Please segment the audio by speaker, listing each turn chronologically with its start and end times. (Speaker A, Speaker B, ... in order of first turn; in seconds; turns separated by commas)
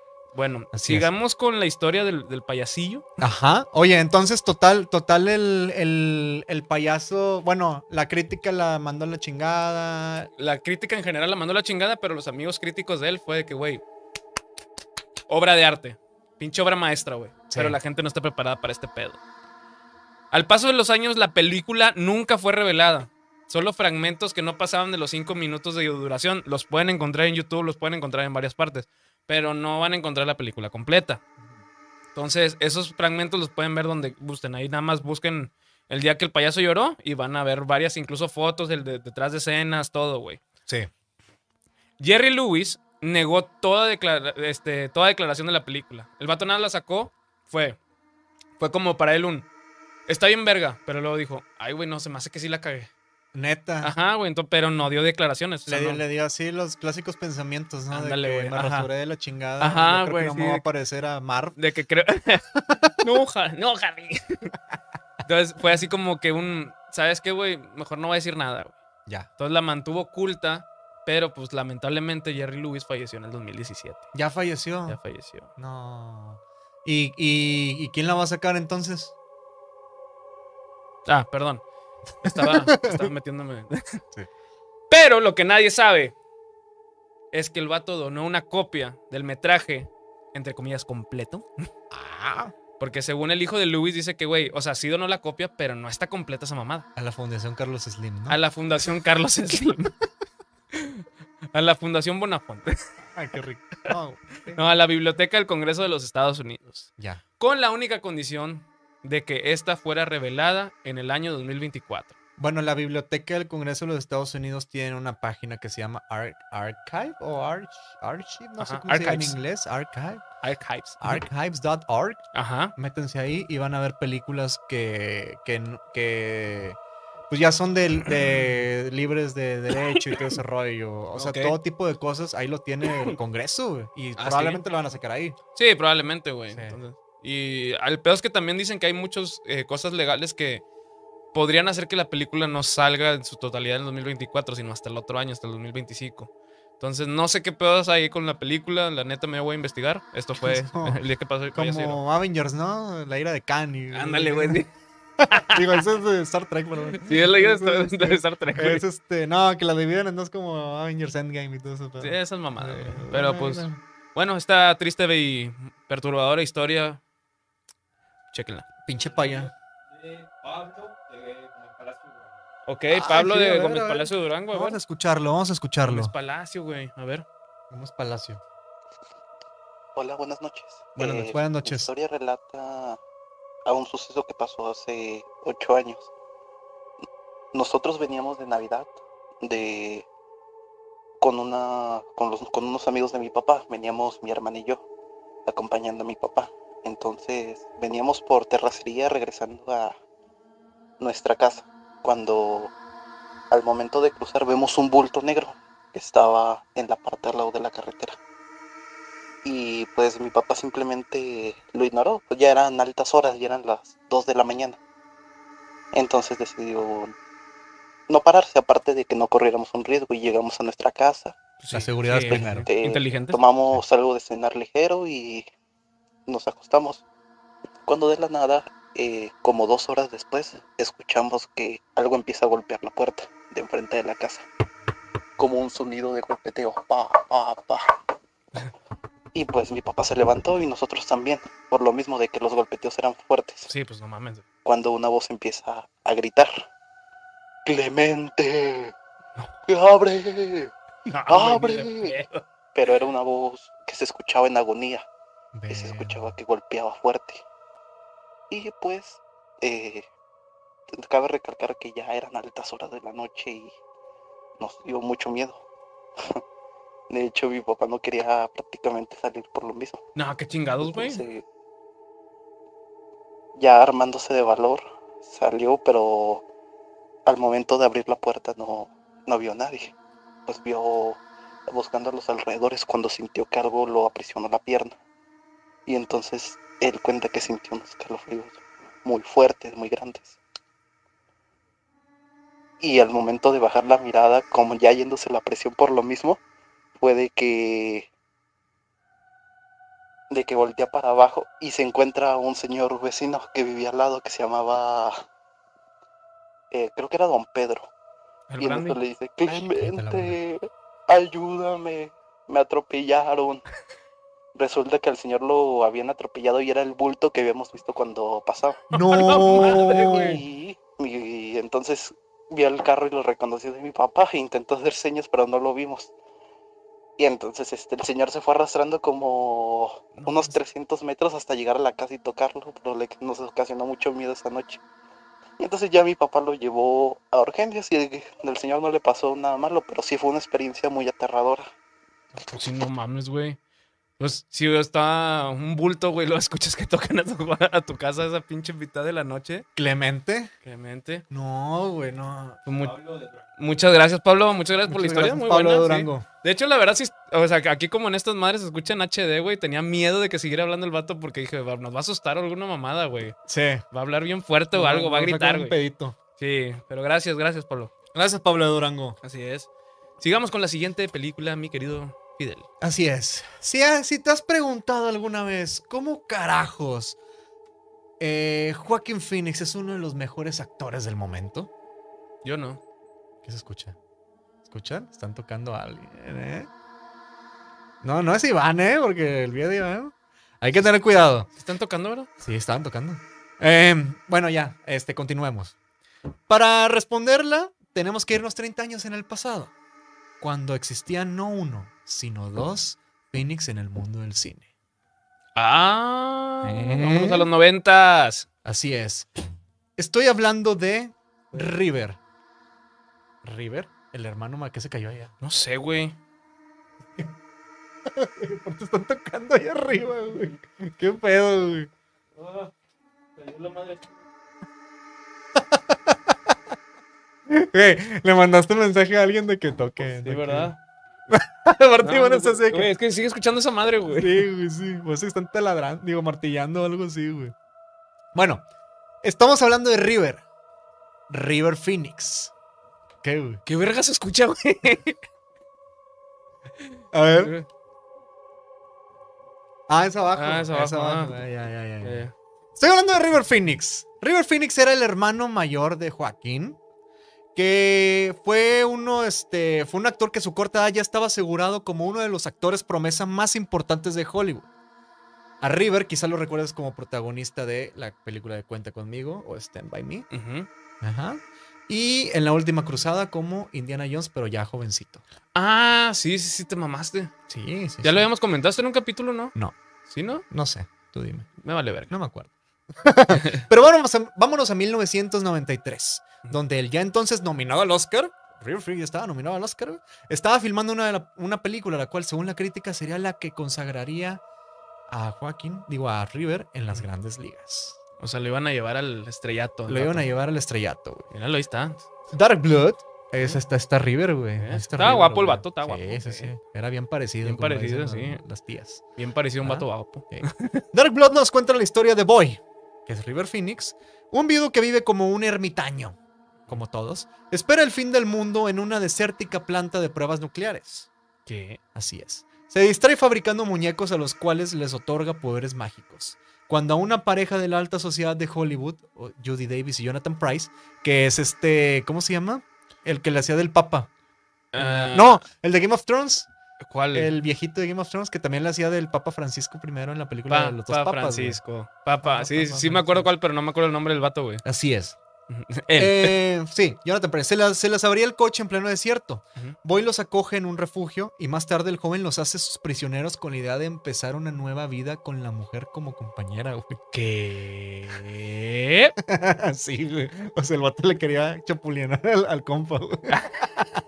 Speaker A: 0.3-3.0, Speaker B: 0.7-1.1, Speaker B: 3.2-10.3, Speaker A: 10.4-13.8, Speaker A: 15.3-19.2, Speaker B: 17.5-17.8, Speaker A: 20.3-31.2, Speaker A: 32.1-40.4, Speaker A: 42.0-47.8, Speaker A: 48.6-49.5, Speaker A: 50.1-52.9, Speaker B: 53.3-53.9, Speaker A: 53.8-56.0, Speaker B: 55.6-61.6, Speaker A: 57.9-58.9, Speaker A: 59.6-60.6, Speaker A: 61.6-64.5, Speaker A: 65.2-68.8, Speaker A: 69.4-74.1, Speaker B: 74.1-75.0, Speaker A: 74.9-75.5, Speaker B: 75.6-79.1, Speaker A: 81.0-81.6, Speaker A: 82.2-84.0, Speaker B: 82.2-83.0, Speaker A: 84.9-86.1, Speaker A: 87.3-91.7, Speaker B: 91.9-92.5, Speaker A: 92.8-96.9, Speaker B: 97.0-98.4, Speaker A: 98.3-99.9, Speaker A: 100.7-102.9, Speaker B: 103.1-104.6, Speaker A: 104.5-112.2, Speaker B: 112.4-120.2, Speaker A: 118.6-119.3, Speaker A: 120.4-121.2, Speaker B: 121.0-122.2, Speaker A: 122.3-122.7, Speaker B: 122.8-126.8, Speaker B: 127.3-135.4, Speaker A: 131.1-131.6, Speaker A: 134.2-134.6, Speaker A: 135.5-140.6, Speaker B: 136.5-136.8, Speaker A: 141.3-152.0, Speaker B: 150.4-151.0, Speaker B: 151.5-154.6, Speaker A: 153.9-154.7, Speaker A: 155.3-155.8, Speaker B: 155.3-163.8, Speaker A: 157.0-158.8, Speaker A: 162.0-167.0, Speaker A: 168.3-168.7, Speaker B: 168.8-169.5, Speaker A: 172.7-174.8, Speaker B: 172.9-176.1, Speaker A: 175.8-177.2, Speaker B: 177.7-178.4, Speaker C: 179.9-183.0, Speaker B: 181.1-181.9, Speaker C: 183.7-186.1, Speaker C: 187.5-190.1, Speaker C: 191.2-194.8, Speaker C: 195.4-199.9, Speaker C: 201.0-202.7, Speaker C: 203.5-208.2, Speaker C: 209.4-214.8, Speaker C: 215.9-217.1, Speaker C: 218.1-221.4, Speaker A: 221.6-223.4, Speaker B: 221.7-222.7, Speaker C: 222.3-225.5, Speaker C: 226.3-227.0, Speaker C: 227.8-234.4, Speaker C: 235.4-237.8, Speaker C: 239.3-243.7, Speaker A: 243.7-244.4, Speaker C: 244.6-246.6, Speaker C: 247.6-248.9, Speaker C: 249.7-250.7, Speaker A: 251.1-252.4, Speaker C: 251.3-252.1, Speaker C: 252.7-255.1, Speaker B: 255.5-256.4, Speaker C: 255.7-257.4, Speaker C: 258.5-260.1, Speaker C: 260.9-263.8, Speaker C: 264.6-265.6, Speaker C: 267.1-270.0, Speaker A: 270.1-271.2, Speaker C: 270.8-271.4, Speaker C: 273.6-276.4, Speaker C: 277.2-279.9, Speaker C: 280.4-284.9, Speaker C: 285.9-290.4, Speaker C: 292.8-296.4, Speaker C: 297.0-298.1, Speaker C: 300.3-305.2, Speaker C: 306.7-307.9, Speaker A: 308.5-309.0, Speaker C: 308.6-313.6, Speaker B: 309.7-310.4, Speaker C: 314.5-318.9, Speaker B: 318.9-320.4, Speaker A: 318.9-320.4, Speaker C: 320.1-326.1, Speaker C: 327.2-334.8, Speaker A: 330.1-330.6, Speaker C: 335.6-341.7, Speaker A: 342.4-343.6, Speaker A: 344.2-349.6, Speaker B: 349.8-350.5, Speaker A: 350.6-351.2, Speaker B: 351.3-352.6, Speaker A: 352.6-363.4, Speaker B: 354.9-356.2, Speaker B: 363.5-363.8, Speaker A: 363.9-365.8, Speaker B: 364.7-366.1, Speaker A: 366.4-367.9, Speaker B: 368.1-369.2, Speaker A: 369.2-369.7, Speaker A: 370.2-372.7, Speaker B: 372.8-377.2, Speaker B: 378.2-381.7, Speaker A: 382.4-382.8, Speaker B: 383.4-384.0, Speaker B: 384.6-386.7, Speaker B: 388.0-391.5, Speaker A: 391.6-392.3, Speaker B: 392.4-395.7, Speaker B: 396.5-399.7, Speaker B: 400.4-404.7, Speaker A: 405.5-408.5, Speaker B: 406.6-407.5, Speaker B: 408.6-409.3, Speaker B: 410.0-412.2, Speaker B: 413.4-415.3, Speaker A: 415.4-416.1, Speaker B: 418.1-421.9, Speaker A: 422.4-422.7, Speaker A: 423.4-424.1, Speaker B: 425.6-426.3, Speaker B: 427.5-430.7, Speaker A: 430.0-430.8, Speaker B: 431.3-432.9, Speaker A: 432.0-434.5, Speaker B: 434.1-437.5, Speaker B: 438.3-438.6, Speaker B: 439.2-440.4, Speaker B: 441.3-442.5, Speaker B: 443.2-443.6, Speaker A: 443.6-445.2, Speaker B: 447.1-447.5, Speaker A: 447.4-447.7, Speaker B: 449.9-456.8, Speaker A: 450.3-451.4, Speaker A: 452.0-452.3, Speaker B: 457.5-464.7, Speaker B: 465.6-470.3, Speaker A: 470.3-470.7, Speaker B: 471.0-475.2, Speaker A: 475.5-477.3, Speaker B: 477.5-478.3, Speaker A: 478.0-479.5, Speaker A: 480.1-480.4, Speaker B: 480.5-481.5, Speaker A: 481.6-482.1, Speaker B: 482.1-494.4, Speaker B: 495.1-498.0, Speaker A: 498.2-500.2, Speaker B: 499.9-501.3, Speaker A: 501.3-502.1, Speaker B: 502.3-509.0, Speaker A: 504.6-506.5, Speaker A: 507.4-508.4, Speaker A: 509.2-510.8, Speaker B: 509.6-516.2, Speaker B: 516.7-521.1, Speaker A: 521.5-521.8, Speaker B: 521.9-534.1, Speaker A: 534.7-535.4, Speaker B: 534.7-536.5, Speaker A: 536.8-537.3, Speaker B: 537.1-541.6, Speaker A: 540.5-544.6, Speaker B: 542.2-543.3, Speaker B: 544.6-545.2, Speaker A: 545.5-546.3, Speaker B: 545.9-557.0, Speaker A: 557.1-559.1, Speaker B: 559.2-563.4